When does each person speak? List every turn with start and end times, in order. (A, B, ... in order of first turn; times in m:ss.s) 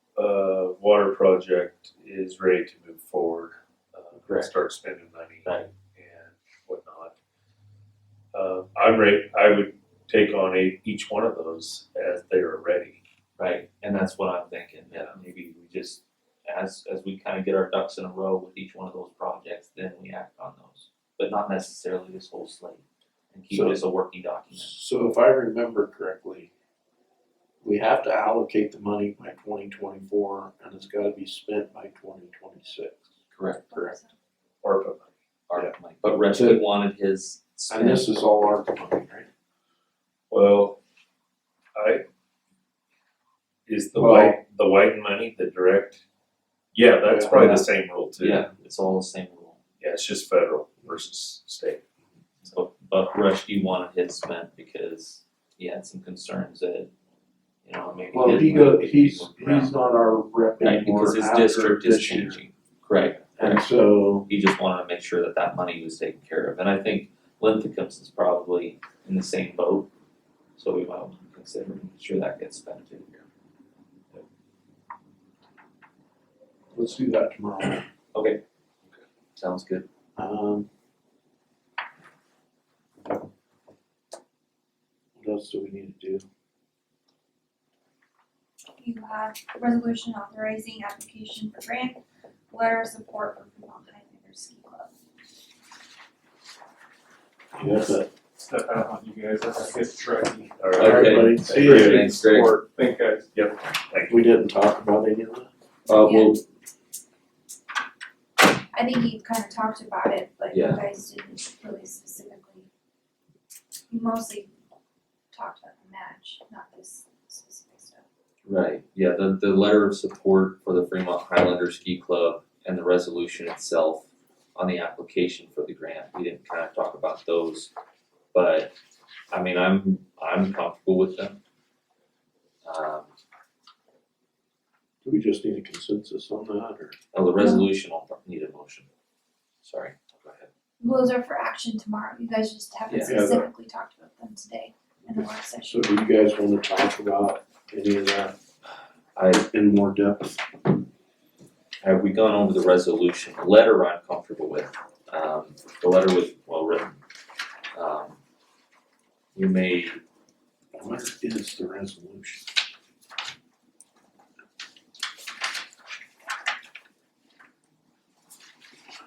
0:00.2-0:07.1 A
0:04.2-0:04.5 B
0:05.4-0:05.7 B
0:08.3-0:13.0 A
0:13.4-0:24.7 B
0:14.9-0:15.2 A
0:23.5-0:23.8 C
0:24.5-0:26.5 C
0:27.6-0:33.1 C
0:33.3-0:33.9 B
0:33.7-0:34.2 D
0:34.6-0:35.1 A
0:35.5-0:38.1 B
0:36.3-0:36.6 C
0:37.7-0:39.3 C
0:40.3-0:40.8 A
0:41.7-0:42.0 A
0:43.6-0:46.0 A
0:43.9-0:44.4 C
0:46.7-0:48.4 A
0:47.0-0:47.6 C
0:47.3-0:47.6 B
0:48.2-0:49.6 B
0:49.8-0:51.8 A
0:52.4-0:56.9 B
0:57.6-0:59.7 B
0:58.1-1:02.4 C
1:00.6-1:03.6 B
1:03.4-1:04.3 C
1:04.2-1:09.9 B
1:10.6-1:13.2 B
1:16.7-1:17.8 C
1:18.1-1:18.4 B
1:19.4-1:19.8 B
1:20.2-1:20.7 C
1:25.2-1:26.2 C
1:28.8-1:32.0 D
1:32.5-1:34.9 D
1:37.5-1:38.1 C
1:38.4-1:40.6 E
1:40.6-1:42.1 A
1:40.8-1:42.1 C
1:40.8-1:42.6 B
1:41.4-1:43.3 E
1:43.3-1:44.2 A
1:44.1-1:45.5 C
1:45.9-1:46.4 B
1:46.0-1:46.4 D
1:48.7-1:52.7 D
1:50.5-1:50.8 B
1:53.9-1:54.5 D
1:55.3-1:58.0 D
1:58.4-2:07.7 B
2:08.3-2:08.7 B
2:09.3-2:11.4 B
2:12.6-2:13.1 B
2:15.0-2:17.0 C
2:17.1-2:18.9 B
2:17.4-2:17.6 D
2:19.6-2:20.5 B
2:20.8-2:25.9 D
2:22.9-2:23.2 B
2:23.0-2:23.5 C
2:25.7-2:28.4 C
2:29.2-2:29.4 B
2:29.3-2:30.6 C
2:31.8-2:37.0 B
2:37.7-2:38.2 B
2:39.3-2:40.0 B
2:40.7-2:42.5 C